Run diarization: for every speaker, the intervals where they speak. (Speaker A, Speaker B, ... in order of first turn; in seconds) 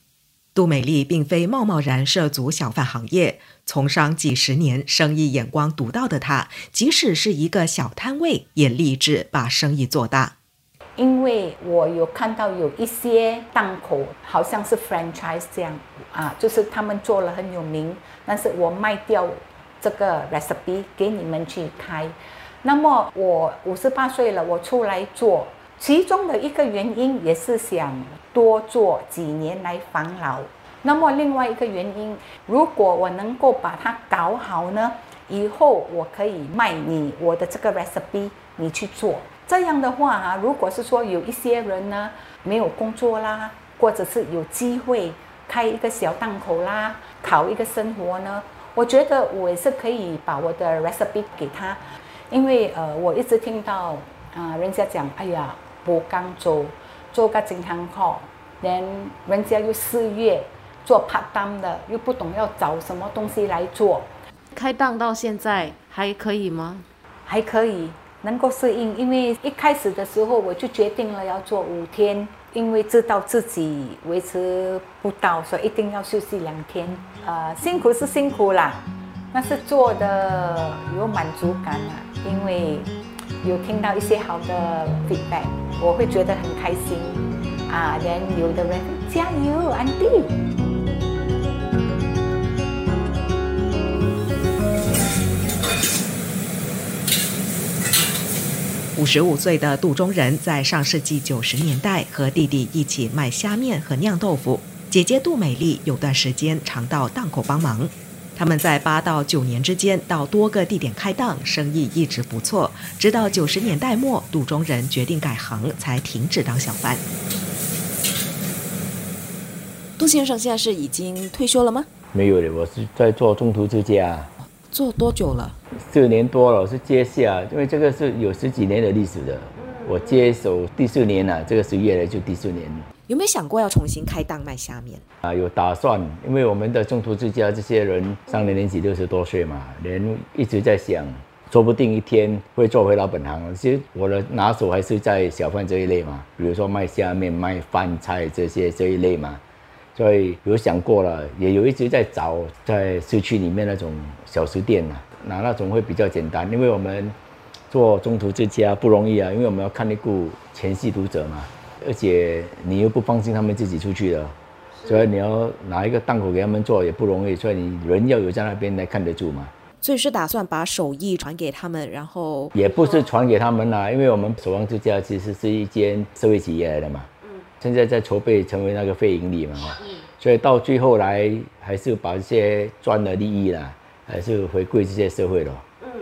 Speaker A: 0.5-10.3, 98.9-117.0, 120.0-120.6, 133.1-135.0, 169.8-172.5
Speaker B: 11.0-64.1, 67.2-90.3
Speaker C: 64.5-66.8
Speaker D: 120.0-121.8, 124.8-125.5
Speaker E: 122.1-124.3, 125.8-132.8, 135.2-149.4, 149.9-157.1, 157.7-169.5, 172.5-177.1, 177.6-185.6